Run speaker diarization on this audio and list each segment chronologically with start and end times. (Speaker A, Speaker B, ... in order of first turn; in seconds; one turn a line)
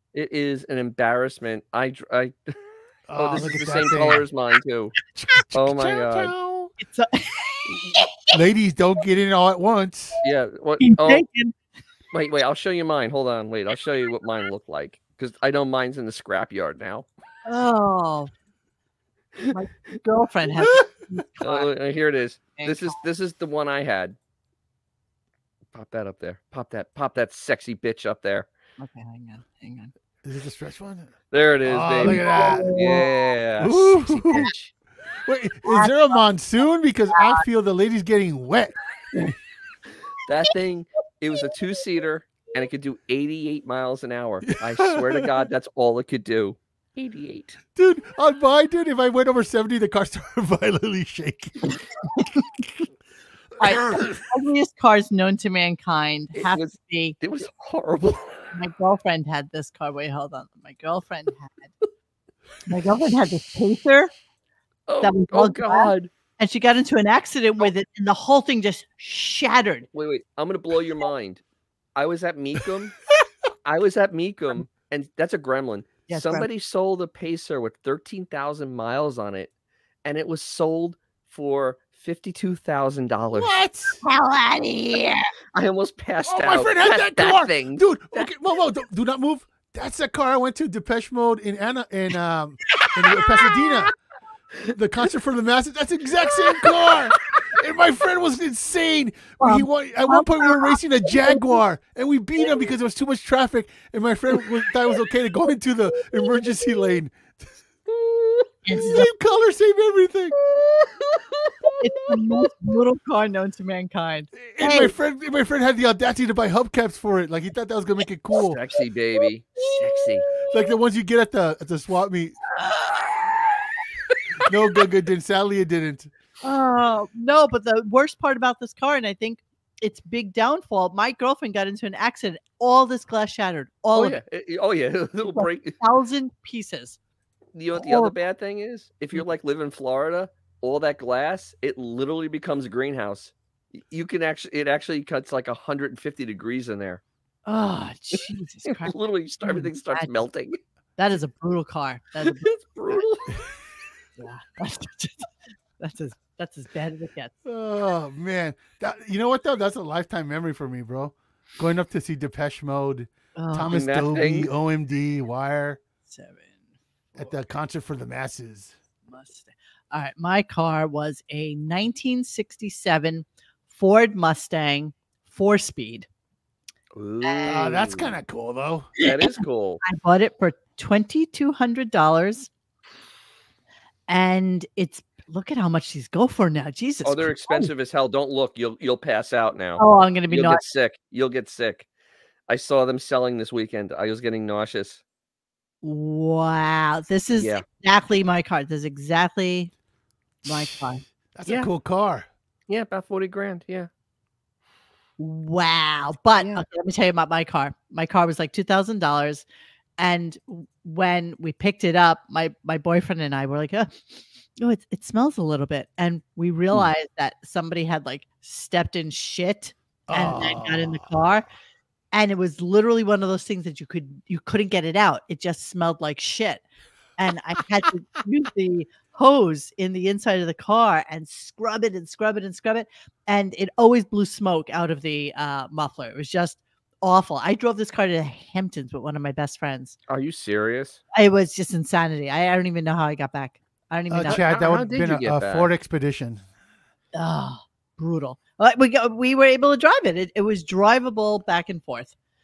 Speaker A: 0.1-2.5
Speaker B: 3.1-4.3
Speaker A: 3.1-5.0
Speaker B: 5.1-6.7
Speaker A: 5.5-6.3
Speaker C: 6.8-8.3
Speaker B: 8.3-10.2
Speaker A: 10.2-11.2
Speaker C: 10.8-11.6
Speaker A: 12.1-17.1
Speaker C: 17.5-18.3
Speaker C: 19.5-21.7
Speaker A: 21.4-24.2
Speaker C: 22.6-23.0
Speaker A: 25.7-28.5
Speaker C: 28.8-29.9
Speaker B: 30.2-34.5
Speaker A: 31.3-34.7
Speaker C: 32.0-33.1
Speaker B: 35.2-39.4
Speaker C: 35.7-36.2
Speaker C: 37.2-37.4
Speaker A: 40.3-47.6
Speaker B: 44.5-45.3
Speaker B: 47.8-52.4
Speaker C: 53.6-57.2
Speaker B: 53.6-54.1
Speaker A: 56.3-58.5
Speaker C: 58.5-61.7
Speaker C: 62.7-64.1
Speaker A: 64.9-66.1
Speaker C: 65.0-69.9
Speaker A: 69.9-71.4
Speaker A: 72.0-73.0
Speaker A: 73.7-79.5
Speaker C: 76.1-76.5
Speaker A: 80.0-83.5
Speaker B: 83.3-84.0
Speaker C: 84.0-85.3
Speaker A: 85.5-88.3
Speaker B: 86.2-93.9
Speaker B: 94.7-107.4
Speaker C: 99.4-101.6
Speaker A: 107.9-108.5
Speaker C: 108.7-109.1
Speaker B: 108.7-110.4
Speaker A: 110.6-111.8
Speaker C: 111.8-114.9
Speaker B: 114.3-118.6
Speaker A: 118.3-120.3
Speaker B: 120.4-122.4
Speaker C: 122.6-123.1
Speaker B: 124.5-126.1
Speaker C: 126.4-134.2
Speaker A: 133.9-135.8
Speaker C: 135.2-137.0
Speaker A: 137.6-147.0
Speaker C: 137.8-138.2
Speaker C: 147.5-150.1
Speaker A: 148.7-150.6
Speaker C: 151.0-152.5
Speaker A: 152.2-153.4
Speaker C: 154.2-155.3
Speaker C: 155.8-157.3
Speaker B: 157.4-165.8
Speaker C: 163.4-163.8
Speaker A: 163.7-164.5
Speaker C: 166.1-166.7
Speaker B: 167.2-168.8
Speaker C: 169.1-176.1
Speaker A: 176.9-178.2
Speaker C: 177.2-177.7
Speaker B: 177.5-178.9
Speaker A: 179.0-179.8
Speaker C: 179.0-182.5
Speaker C: 184.1-187.7
Speaker A: 187.0-191.9
Speaker C: 189.8-190.6
Speaker A: 192.5-195.0
Speaker C: 195.8-199.7
Speaker A: 197.3-197.7
Speaker C: 200.5-201.0
Speaker B: 201.3-202.3
Speaker A: 202.7-203.9
Speaker C: 205.2-209.4
Speaker A: 206.4-206.6
Speaker C: 210.0-214.0
Speaker C: 214.6-221.5
Speaker B: 220.1-221.1
Speaker C: 222.1-226.6
Speaker C: 227.2-240.0
Speaker A: 240.1-241.0
Speaker C: 241.1-244.5
Speaker B: 244.1-246.4
Speaker A: 244.3-245.7
Speaker C: 247.1-252.1